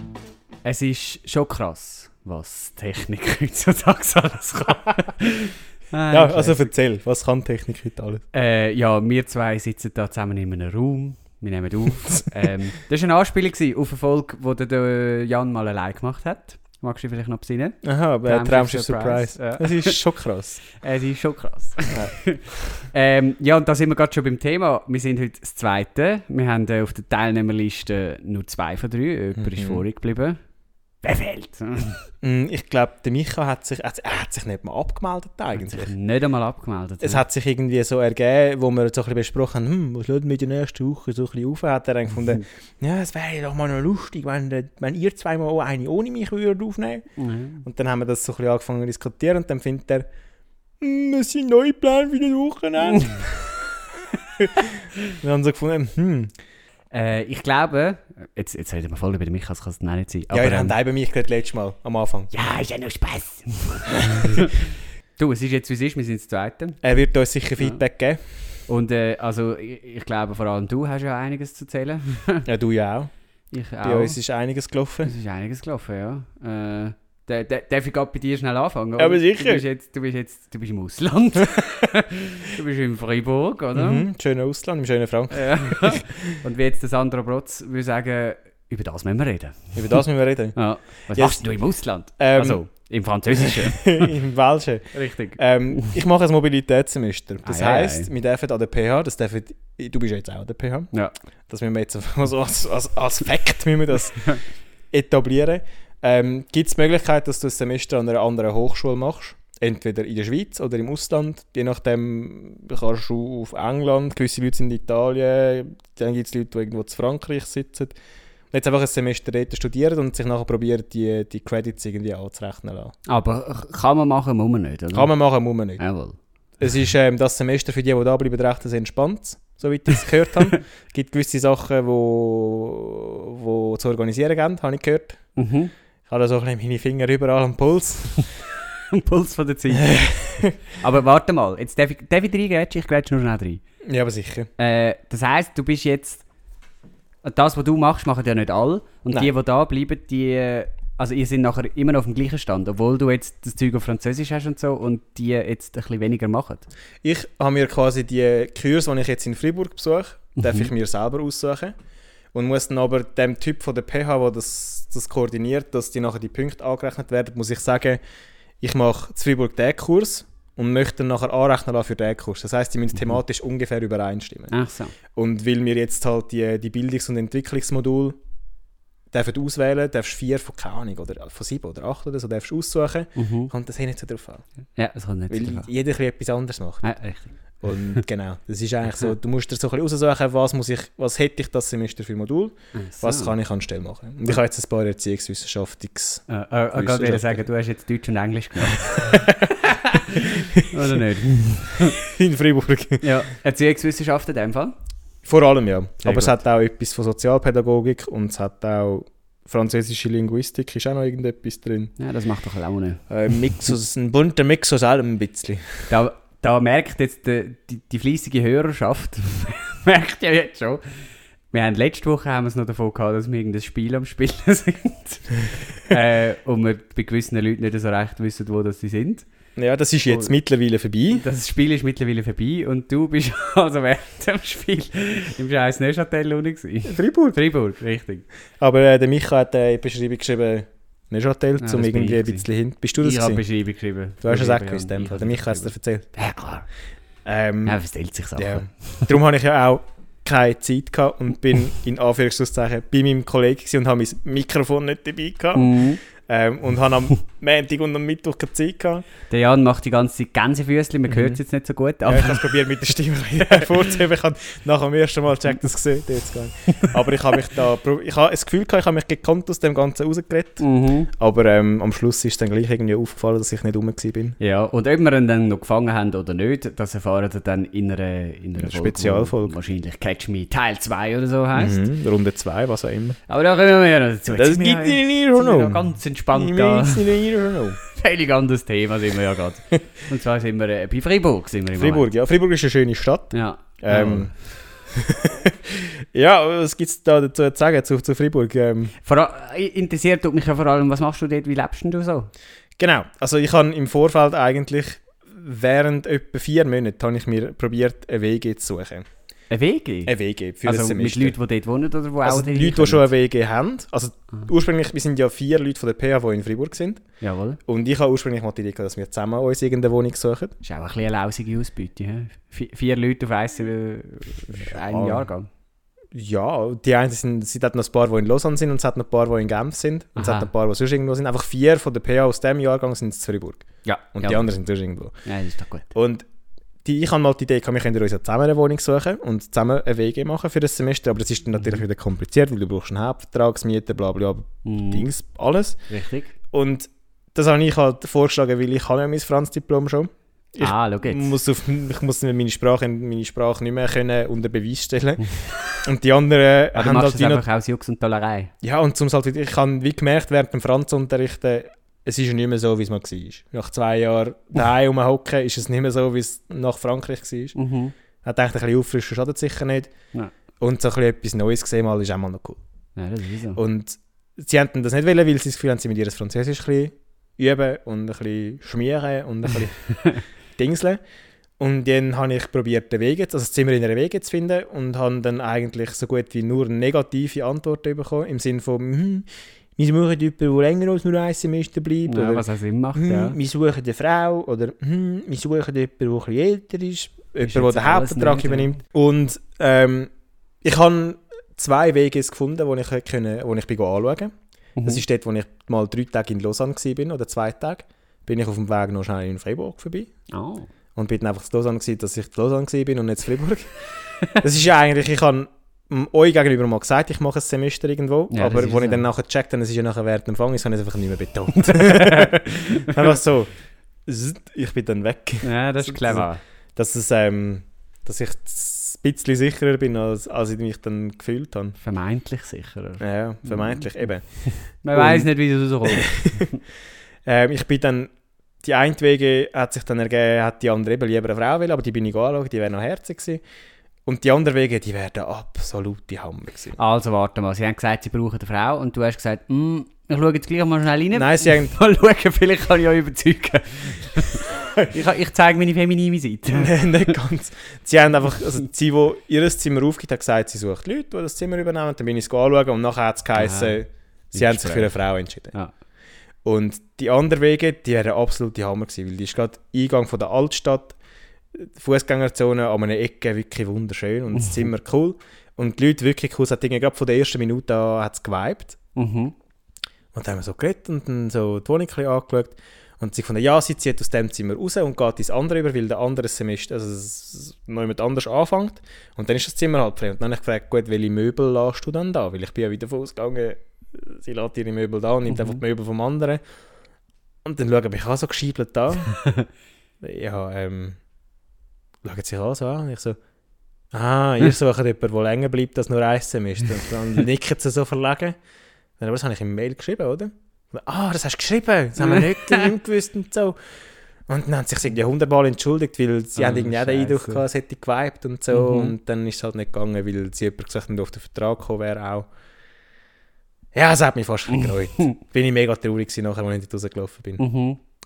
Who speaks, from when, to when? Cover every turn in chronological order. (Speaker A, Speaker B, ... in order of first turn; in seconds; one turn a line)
Speaker A: 0.6-6.7
Speaker B: 6.1-8.2
Speaker A: 8.3-20.0
Speaker B: 17.8-20.6
Speaker A: 20.7-30.4
Speaker B: 29.4-29.8
Speaker A: 31.0-32.0
Speaker B: 32.2-35.9
Speaker A: 35.5-37.2
Speaker B: 37.0-47.1
Speaker A: 47.2-47.6
Speaker B: 47.6-50.0
Speaker B: 50.8-53.6
Speaker A: 52.9-53.2
Speaker B: 54.4-56.3
Speaker A: 56.9-60.7
Speaker B: 60.3-62.3
Speaker A: 62.3-66.8
Speaker B: 64.0-64.4
Speaker B: 66.8-68.2
Speaker A: 68.7-72.5
Speaker B: 72.5-73.1
Speaker A: 73.5-74.2
Speaker B: 73.8-75.1
Speaker A: 75.0-84.0
Speaker B: 79.0-79.6
Speaker B: 83.7-86.3
Speaker A: 85.3-89.8
Speaker B: 89.7-90.5
Speaker A: 90.5-94.1
Speaker B: 91.1-91.5
Speaker B: 92.2-92.6
Speaker B: 93.3-100.9
Speaker A: 94.9-95.9
Speaker A: 97.4-98.1
Speaker B: 101.5-104.3
Speaker B: 104.9-117.9
Speaker B: 118.5-122.9
Speaker A: 123.0-125.1
Speaker B: 124.9-125.8
Speaker A: 125.8-126.2
Speaker B: 126.6-135.2
Speaker A: 135.3-135.7
Speaker B: 136.1-138.3
Speaker A: 138.9-143.6
Speaker B: 139.8-140.5
Speaker B: 143.8-144.5
Speaker A: 144.6-146.2
Speaker A: 147.2-156.7
Speaker B: 157.0-161.7
Speaker A: 160.4-160.7
Speaker B: 162.3-168.0
Speaker B: 168.6-174.5
Speaker A: 174.5-174.9
Speaker B: 175.1-178.2
Speaker B: 179.1-184.4
Speaker A: 183.2-183.5
Speaker A: 184.8-185.7
Speaker B: 185.3-186.8
Speaker A: 186.8-187.3
Speaker B: 187.6-197.4
Speaker A: 192.7-193.3
Speaker A: 196.3-202.0
Speaker B: 199.0-199.5
Speaker B: 200.6-201.0
Speaker B: 201.7-203.0
Speaker A: 203.0-204.7
Speaker B: 205.2-211.9
Speaker A: 206.0-206.4
Speaker A: 212.0-213.0
Speaker B: 213.1-215.9
Speaker A: 215.9-221.0
Speaker A: 221.5-229.2
Speaker B: 229.6-231.2
Speaker A: 230.1-230.3
Speaker A: 231.1-238.2
Speaker B: 236.9-237.4
Speaker B: 238.6-243.4
Speaker A: 241.6-242.4
Speaker A: 243.0-246.7
Speaker B: 244.2-246.1
Speaker B: 247.2-247.8
Speaker A: 247.7-249.1
Speaker B: 248.3-259.1
Speaker A: 255.5-256.0
Speaker A: 259.3-262.5
Speaker B: 261.1-261.4
Speaker B: 262.1-274.4
Speaker A: 270.6-271.1
Speaker A: 274.4-281.8
Speaker B: 278.6-279.5
Speaker B: 281.5-283.2
Speaker A: 283.3-287.1
Speaker B: 284.3-287.8
Speaker A: 287.8-292.1
Speaker B: 291.8-298.9
Speaker A: 293.3-294.3
Speaker A: 299.0-302.3
Speaker B: 302.8-309.1
Speaker A: 309.5-310.1
Speaker B: 310.1-311.4
Speaker A: 310.6-313.1
Speaker B: 312.2-317.0
Speaker A: 317.2-317.6
Speaker B: 317.6-320.5
Speaker A: 320.6-325.5
Speaker B: 324.5-325.3
Speaker B: 326.1-335.1
Speaker A: 330.1-330.5
Speaker A: 333.8-334.5
Speaker A: 335.2-335.9
Speaker B: 335.9-336.2
Speaker B: 336.8-345.8
Speaker A: 344.6-345.1
Speaker A: 345.9-346.3
Speaker B: 346.5-355.3
Speaker A: 350.6-351.3
Speaker A: 355.2-355.5
Speaker B: 355.8-357.4
Speaker A: 356.7-358.5
Speaker B: 358.6-367.6
Speaker A: 367.6-367.9
Speaker B: 368.2-369.9
Speaker B: 370.6-372.6
Speaker A: 372.9-373.6
Speaker B: 373.6-379.9
Speaker B: 380.6-381.0
Speaker B: 381.6-400.1
Speaker A: 392.1-393.4
Speaker A: 397.4-398.8
Speaker B: 400.6-410.1
Speaker A: 404.8-405.0
Speaker A: 410.3-410.7
Speaker B: 410.9-413.7
Speaker B: 414.3-423.5
Speaker A: 418.3-419.0
Speaker A: 421.5-423.1
Speaker B: 424.1-431.8
Speaker A: 425.4-426.4
Speaker A: 431.8-433.9
Speaker B: 433.0-435.3
Speaker A: 434.4-436.6
Speaker B: 435.8-436.5
Speaker B: 437.2-438.1
Speaker B: 438.6-443.4
Speaker B: 444.1-446.8
Speaker A: 446.8-457.1
Speaker B: 451.1-451.7
Speaker B: 456.5-465.5
Speaker A: 463.4-463.8
Speaker A: 464.3-465.0
Speaker B: 466.4-471.0
Speaker B: 471.5-478.8
Speaker A: 478.9-479.3
Speaker B: 480.1-496.4
Speaker A: 495.3-495.6
Speaker B: 497.4-499.1
Speaker A: 499.1-499.5
Speaker B: 500.0-501.0
Speaker B: 502.0-503.2
Speaker B: 503.9-508.4
Speaker B: 509.0-513.5
Speaker A: 512.0-512.7
Speaker B: 514.3-522.3
Speaker A: 516.4-517.4
Speaker A: 518.5-518.9
Speaker B: 523.7-527.4
Speaker A: 524.5-525.2
Speaker A: 527.4-527.8